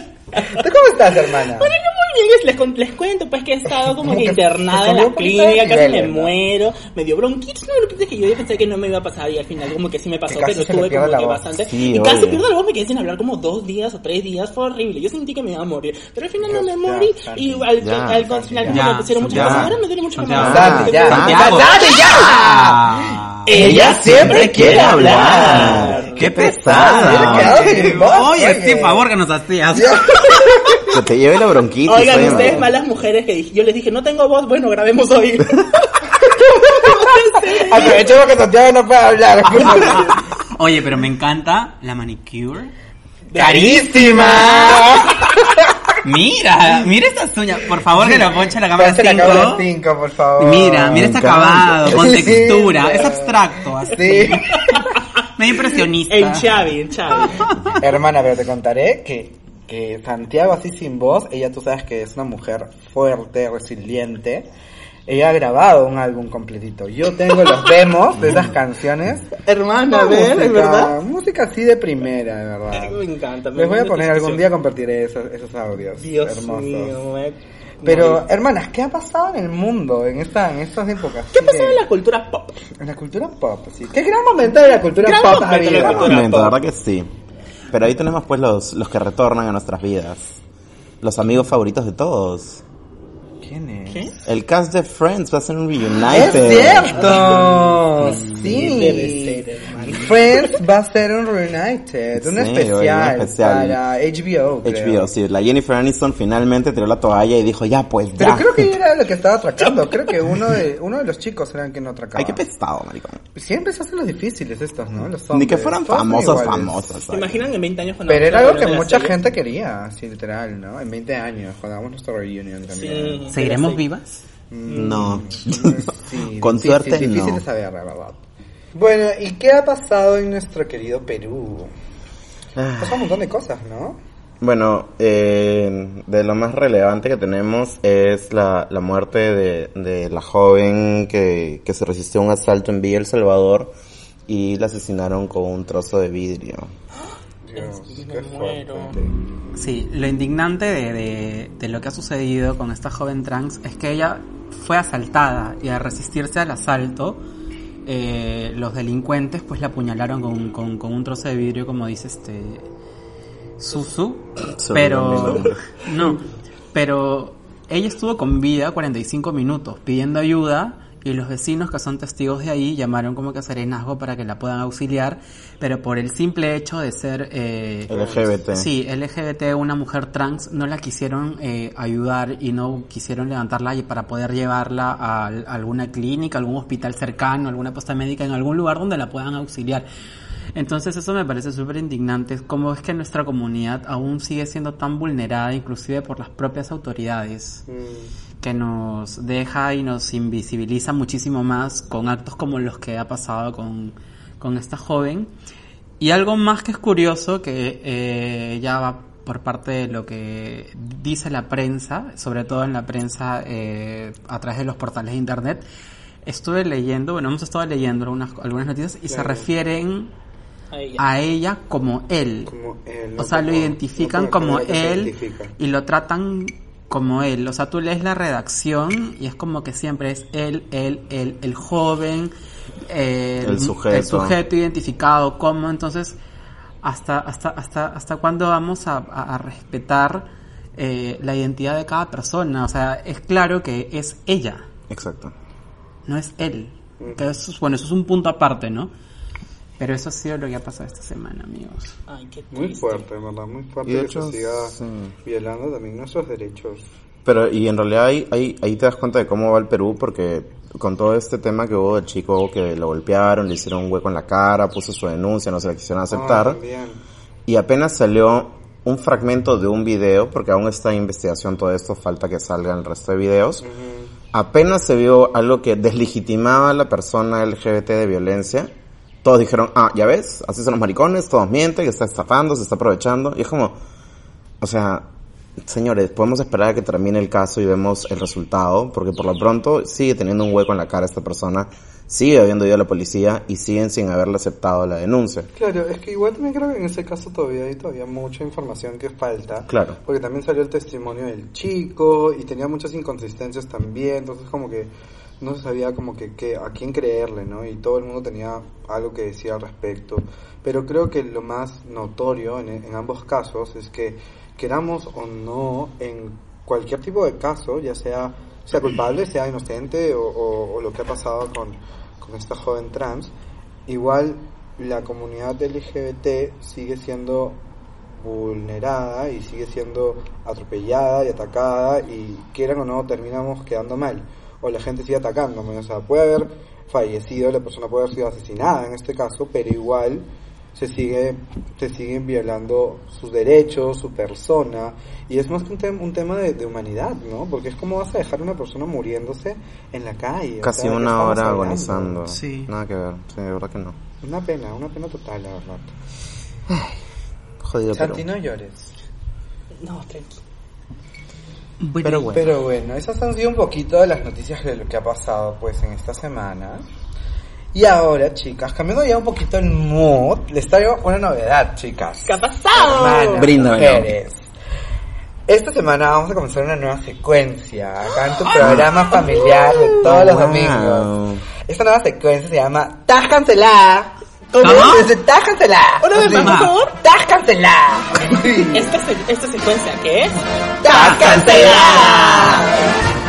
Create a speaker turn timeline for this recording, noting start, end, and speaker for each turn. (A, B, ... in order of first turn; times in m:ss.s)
0:00.3-0:00.6 A
0:00.4-0:01.7 B
0:01.2-0:22.4 A
0:03.8-0:06.4 B
0:10.3-0:11.5 B
0:11.6-0:12.4 C
0:16.4-0:17.7 B
0:17.8-0:19.8 C
0:18.2-0:18.8 B
0:18.7-0:23.5 D
0:20.3-0:21.8 C
0:20.4-0:26.1 B
0:23.5-0:26.3 A
0:23.5-0:27.9 C
0:25.4-0:30.4 D
0:26.6-0:29.1 B
0:27.3-0:27.6 A
0:29.7-0:30.8 B
0:30.9-0:32.7 C
0:31.8-0:38.1 A
0:32.1-0:32.7 B
0:36.2-0:40.2 B
0:39.6-0:42.7 D
0:43.3-0:45.2 A
0:43.3-0:45.9 B
0:43.4-0:44.2 D
0:46.0-0:49.7 D
0:47.9-0:51.2 B
0:50.4-0:54.6 D
0:50.9-0:52.6 C
0:51.9-0:54.9 B
0:55.4-0:56.6 D
0:56.1-0:57.5 A
0:57.7-1:04.5 B
1:05.1-1:13.0 B
1:09.4-1:11.0 A
1:12.7-1:14.5 A
1:13.5-1:17.0 B
1:16.0-1:18.3 A
1:17.8-1:21.8 B
1:21.3-1:22.6 A
1:22.8-1:26.2 B
1:24.9-1:26.6 A
1:25.8-1:27.1 C
1:27.7-1:30.4 C
1:31.0-1:32.6 C
1:33.4-1:34.3 B
1:34.3-1:37.1 C
1:36.0-1:45.1 B
1:36.2-1:40.6 A
1:42.2-1:43.8 C
1:44.6-1:48.8 C
1:48.2-1:52.4 B
1:49.7-1:50.2 A
1:52.2-1:53.2 C
1:53.4-1:56.9 B
1:55.3-1:57.4 C
1:57.1-1:59.2 A
1:58.1-2:03.3 B
2:02.7-2:03.8 A
2:03.3-2:04.2 D
2:04.5-2:08.2 B
2:04.7-2:05.0 A
2:04.7-2:07.4 C
2:08.7-2:11.7 B
2:12.6-2:13.1 C
2:12.8-2:14.0 B
2:14.4-2:23.7 C
2:24.3-2:26.7 C
2:27.4-2:29.1 B
2:27.6-2:29.0 A
2:29.5-2:37.2 D
2:37.9-2:42.7 D
2:43.6-2:57.9 D
2:44.6-2:45.6 C
2:57.9-2:58.7 C
2:57.9-2:58.2 B
2:58.5-3:09.9 D
3:10.6-3:17.6 D
3:17.7-3:18.1 B
3:18.4-3:25.3 D
3:26.0-3:35.6 D
3:36.2-3:40.1 D
3:39.1-3:39.5 B
3:40.7-3:41.0 A
3:41.0-3:42.5 D
3:42.5-3:45.5 B
3:43.2-3:52.3 D
3:52.9-3:56.2 D
3:53.4-3:54.4 C
3:56.8-4:04.6 D
4:04.9-4:05.3 C
4:06.1-4:08.9 D
4:07.0-4:07.3 B
4:09.8-4:12.0 D
4:12.1-4:13.1 A
4:12.5-4:16.9 B
4:13.9-4:15.1 C
4:17.2-4:26.6 C
4:26.1-4:27.0 B
4:27.5-4:33.6 C
4:33.6-4:34.1 B
4:34.3-4:38.7 C
4:39.2-4:43.8 C
4:44.6-4:45.1 C
4:45.6-4:55.5 C
4:55.6-5:23.3 B
4:59.7-5:00.0 C
5:23.9-5:27.6 B
5:28.1-5:52.4 B
5:50.6-5:54.0 C
5:52.3-5:52.7 D
5:54.2-5:55.9 B
5:56.7-5:57.0 C
5:57.6-5:58.2 C
5:57.9-5:58.9 B
5:59.8-6:00.4 A
6:01.8-6:02.4 D
6:02.0-6:02.5 C
6:02.2-6:06.8 B
6:07.7-6:14.5 B
6:12.2-6:13.6 A
6:13.4-6:14.1 C
6:15.5-6:21.1 B
6:18.6-6:18.9 C
6:19.1-6:20.0 A
6:20.0-6:21.4 C
6:21.6-6:29.0 B
6:24.5-6:25.0 A
6:24.6-6:25.1 D
6:26.0-6:27.0 A
6:26.2-6:26.7 D
6:28.7-6:30.4 A
6:30.8-6:32.8 B
6:30.9-6:32.9 A
6:30.9-6:32.7 D